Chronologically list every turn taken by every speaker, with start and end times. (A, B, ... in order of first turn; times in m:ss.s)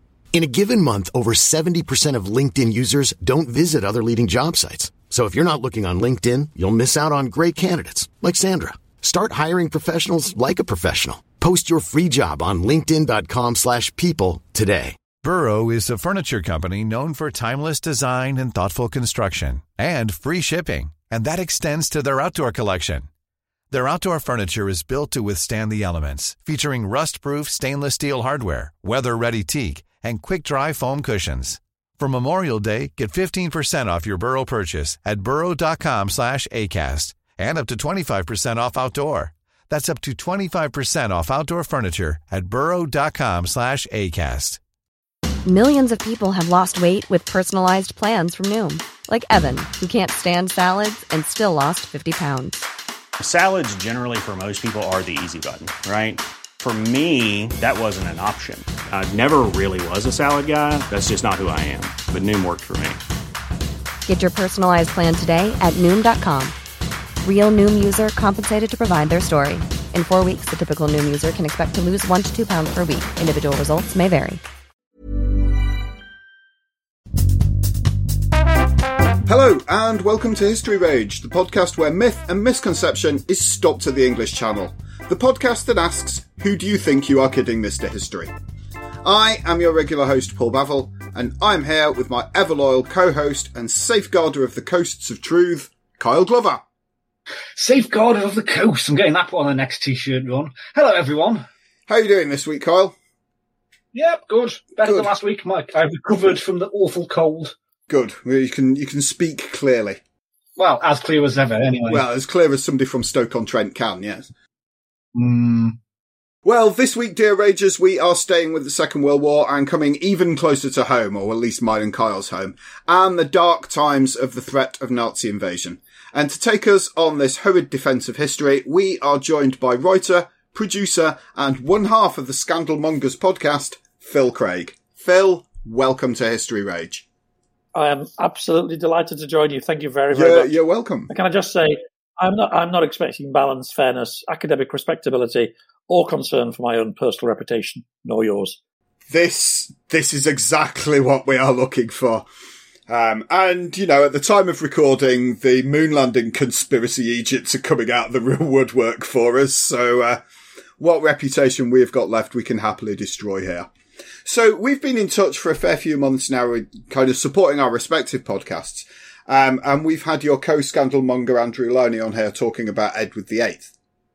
0:00.3-0:15.0 A
0:15.2-0:23.1 B
0:23.7-0:44.6 B
0:45.5-0:52.6 C
0:53.2-1:03.0 D
1:04.0-1:06.6 C
1:07.2-1:14.4 C
1:19.2-1:28.3 E
1:29.0-1:36.6 E
1:37.6-1:41.5 F
1:41.9-1:43.0 E
1:43.9-1:47.5 F
1:44.8-1:45.1 E
1:47.9-1:50.0 E
1:50.6-1:52.0 F
1:51.9-1:54.3 E
1:55.2-1:55.8 F
1:56.4-2:17.0 E
2:17.8-2:20.5 G
2:20.1-2:21.1 E
2:21.1-2:28.6 G
2:29.1-2:32.2 E
2:32.9-2:40.2 E
2:40.8-2:43.7 E
2:44.2-2:53.7 E